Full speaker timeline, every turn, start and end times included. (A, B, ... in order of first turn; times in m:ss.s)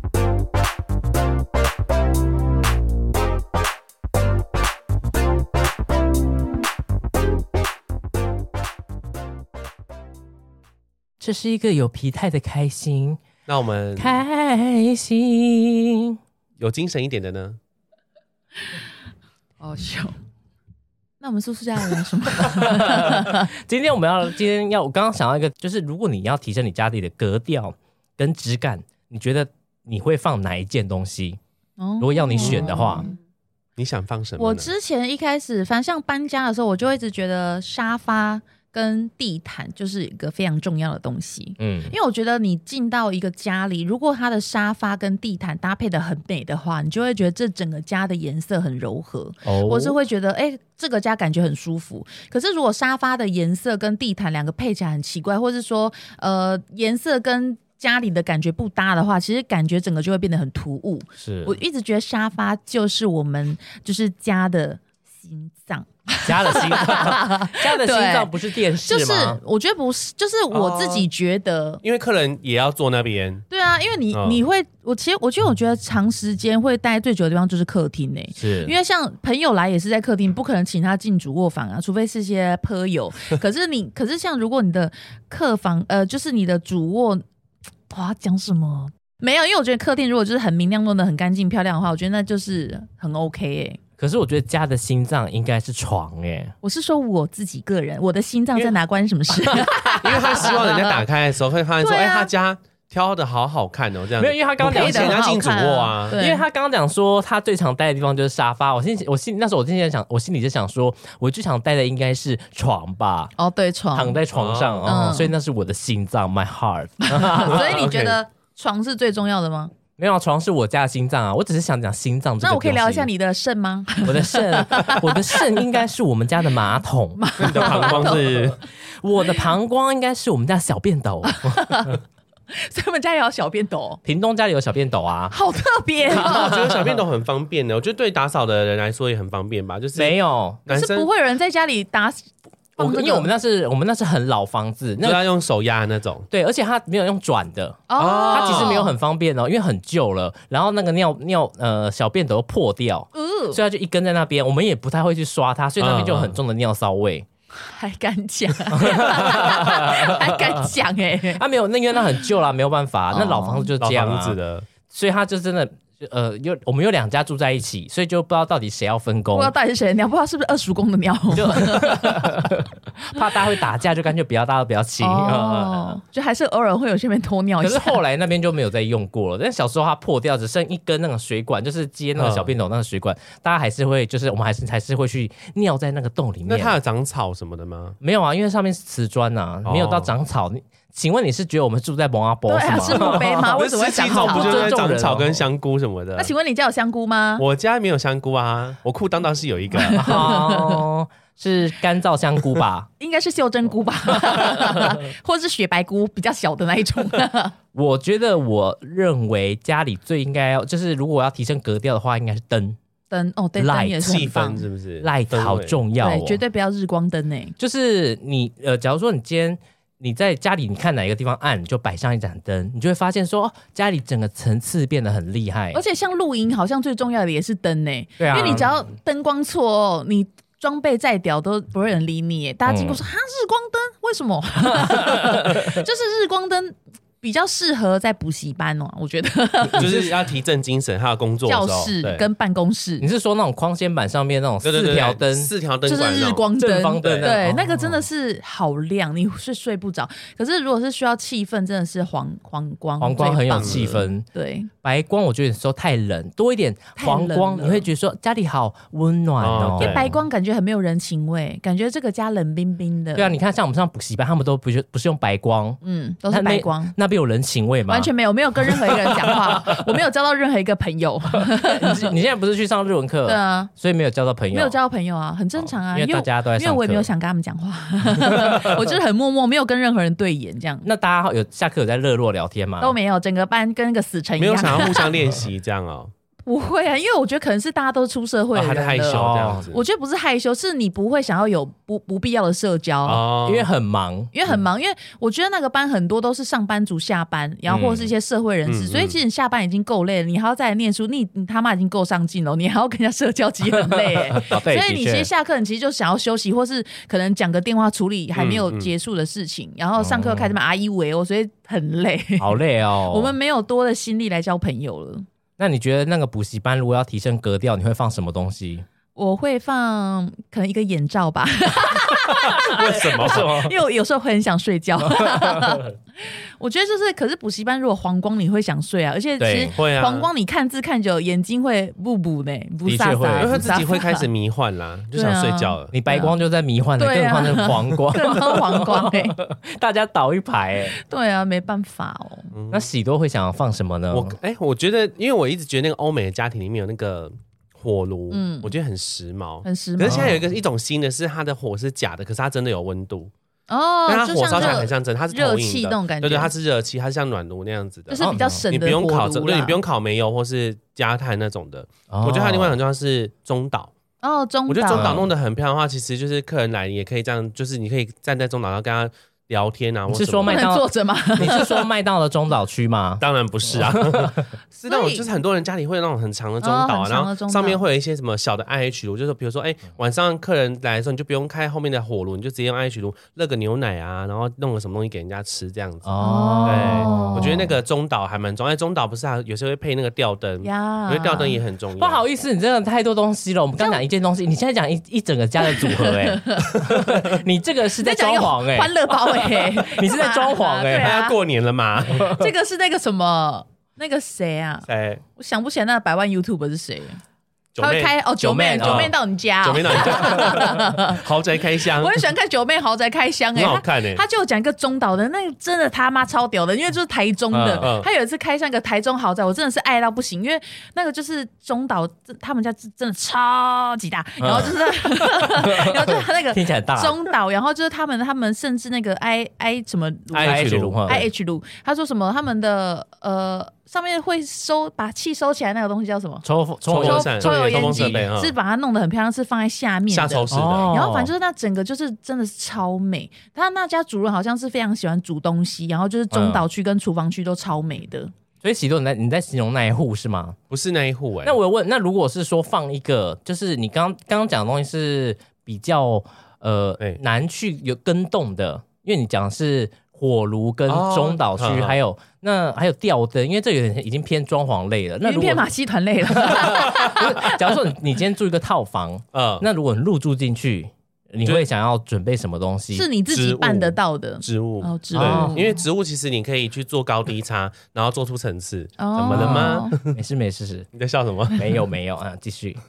0:11.2-0:13.2 A
0:13.5-0:14.2 B
0:14.0-0:16.2 A
0:16.6-0:17.6 B
0:19.6-0:20.1 C
0:21.2-0:23.5 C
0:22.4-0:31.4 A
0:31.8-0:33.2 C
0:32.0-0:33.1 A
0:32.4-0:32.7 B
0:33.8-0:34.7 B
0:34.4-1:11.8 C
0:41.6-0:41.9 A
0:49.4-0:50.0 A
1:01.2-1:01.6 A
1:06.2-1:09.4 A
1:06.6-1:07.1 B
1:10.5-1:11.1 B
1:11.8-1:13.5 B
1:13.5-1:27.2 C
1:14.1-1:14.4 B
1:18.4-1:18.7 A
1:27.9-1:33.8 C
1:34.0-1:36.6 A
1:36.6-1:41.0 C
1:39.4-1:40.5 A
1:40.0-1:46.2 B
1:41.8-1:42.3 C
1:44.2-1:45.2 A
1:44.6-1:46.4 C
1:46.1-1:53.3 A
1:53.4-1:54.2 C
1:53.9-1:57.9 A
1:54.3-1:55.0 B
1:54.8-1:55.3 C
1:57.1-1:59.7 C
1:57.5-1:58.2 B
2:00.0-2:03.1 A
2:02.4-2:05.8 C
2:04.0-2:08.2 A
2:07.2-2:08.5 C
2:07.4-2:08.6 B
2:09.0-2:11.6 A
2:11.2-2:14.0 C
2:14.0-2:15.3 A
2:15.3-2:16.7 C
2:16.0-2:21.1 B
2:16.1-2:17.0 A
2:20.0-2:20.6 A
2:20.7-2:23.3 C
2:22.8-2:25.2 A
2:25.0-2:26.3 B
2:26.3-2:37.3 A
2:27.9-2:29.0 C
2:28.0-2:28.8 B
2:33.1-2:33.6 C
2:35.8-2:36.4 B
2:37.6-2:41.4 C
2:38.7-2:40.6 A
2:41.3-2:44.4 A
2:43.1-2:43.7 C
2:43.8-2:44.7 B
2:44.9-2:49.5 A
2:49.3-2:52.3 C
2:51.3-2:56.0 A
2:53.2-2:53.6 C
2:55.0-2:58.0 C
2:57.6-3:06.8 A
3:02.2-3:02.5 B
3:06.5-3:08.0 B
3:08.0-3:15.5 A
3:09.6-3:10.1 B
3:12.5-3:14.9 C
3:13.5-3:16.3 B
3:16.2-3:17.4 C
3:17.4-3:20.3 B
3:19.7-3:20.8 C
3:20.0-3:22.9 A
3:23.0-3:27.6 C
3:27.7-3:32.8 A
3:33.1-3:34.6 C
3:33.6-3:34.3 A
3:34.0-3:35.8 B
3:35.0-3:36.4 A
3:36.0-3:37.6 C
3:37.6-3:45.8 A
3:45.7-4:00.0 C
3:48.2-3:48.7 A
3:52.7-3:53.0 A
3:54.9-3:55.5 A
3:59.8-4:02.3 B
4:01.5-4:03.1 C
4:03.0-4:05.5 A
4:04.6-4:06.5 B
4:05.8-4:14.7 C
4:06.6-4:08.0 A
4:07.0-4:07.4 B
4:13.0-4:14.3 A
4:13.6-4:13.9 B
4:14.8-4:20.1 A
4:17.0-4:17.9 C
4:19.4-4:20.1 B
4:19.8-4:23.4 C
4:23.2-4:25.8 A
4:25.8-4:27.0 C
4:26.3-4:29.8 A
4:27.9-4:32.2 C
4:31.4-4:34.8 A
4:33.2-4:33.7 C
4:34.5-4:40.9 C
4:35.6-4:37.1 A
4:38.3-4:38.8 A
4:40.8-4:43.0 A
4:42.8-4:45.1 C
4:44.4-4:46.1 B
4:46.5-4:53.2 C
4:48.5-4:49.8 B
4:49.1-4:49.7 A
4:53.0-4:53.7 B
4:53.4-4:54.3 A
4:54.3-5:15.2 C
4:57.7-4:58.1 A
4:58.7-4:59.2 B
5:03.9-5:05.3 A
5:08.4-5:08.9 B
5:10.0-5:10.6 A
5:12.4-5:13.3 A
5:15.6-5:18.9 A
5:19.2-5:34.3 C
5:22.6-5:23.5 B
5:22.8-5:23.7 A
5:25.2-5:25.7 A
5:29.4-5:29.8 A
5:29.7-5:30.3 B
5:32.9-5:33.7 A
5:33.4-5:35.9 B
5:35.1-5:36.4 C
5:35.9-5:41.0 A
5:37.0-5:39.4 C
5:41.0-5:42.5 C
5:42.5-5:42.9 B
5:42.7-5:44.4 A
5:44.1-5:53.3 B
5:48.3-5:48.7 C
5:49.6-5:50.4 C
5:50.0-5:50.4 A
5:53.7-5:56.5 C
5:54.1-6:03.9 B
5:58.1-5:59.8 C
5:58.2-5:58.7 A
6:02.1-6:02.8 A
6:04.2-6:05.2 C
6:04.7-6:10.7 B
6:04.9-6:05.3 A
6:10.1-6:13.2 A
6:10.5-6:11.9 C
6:13.2-6:26.1 B
6:13.7-6:14.4 A
6:14.9-6:15.3 C
6:16.6-6:17.8 C
6:26.0-6:27.8 A
6:26.2-6:27.6 C
6:26.6-6:32.2 B
6:30.6-6:31.6 C
6:32.0-6:41.2 A
6:35.6-6:36.9 C
6:38.0-6:41.4 C
6:41.0-6:42.3 B
6:42.1-6:47.2 C
6:42.2-6:42.4 A
6:44.9-6:45.2 B
6:47.7-6:48.2 B
6:47.8-6:51.2 C
6:48.4-6:49.1 A
6:48.8-6:49.1 B
6:49.6-6:52.2 B
6:52.0-7:16.4 C
6:53.5-6:54.2 B
6:57.5-6:57.9 A
6:57.8-6:58.1 B
7:04.4-7:07.2 A
7:10.3-7:11.2 B
7:10.4-7:11.3 A
7:16.4-7:18.3 A
7:16.9-7:18.5 B
7:17.0-7:28.3 C
7:20.1-7:20.9 B
7:20.5-7:21.3 A
7:26.3-7:26.6 A
7:28.6-7:30.6 A
7:30.7-7:31.6 B
7:31.4-7:45.7 A
7:40.9-7:42.0 B
7:45.2-7:47.7 C
7:46.2-7:53.1 A
7:49.3-7:49.7 B
7:52.9-7:55.8 C
7:53.3-8:00.1 B
7:55.1-7:55.6 A
7:59.0-8:00.0 C
7:59.3-8:00.9 A
8:01.0-8:01.6 B
8:01.5-8:02.8 A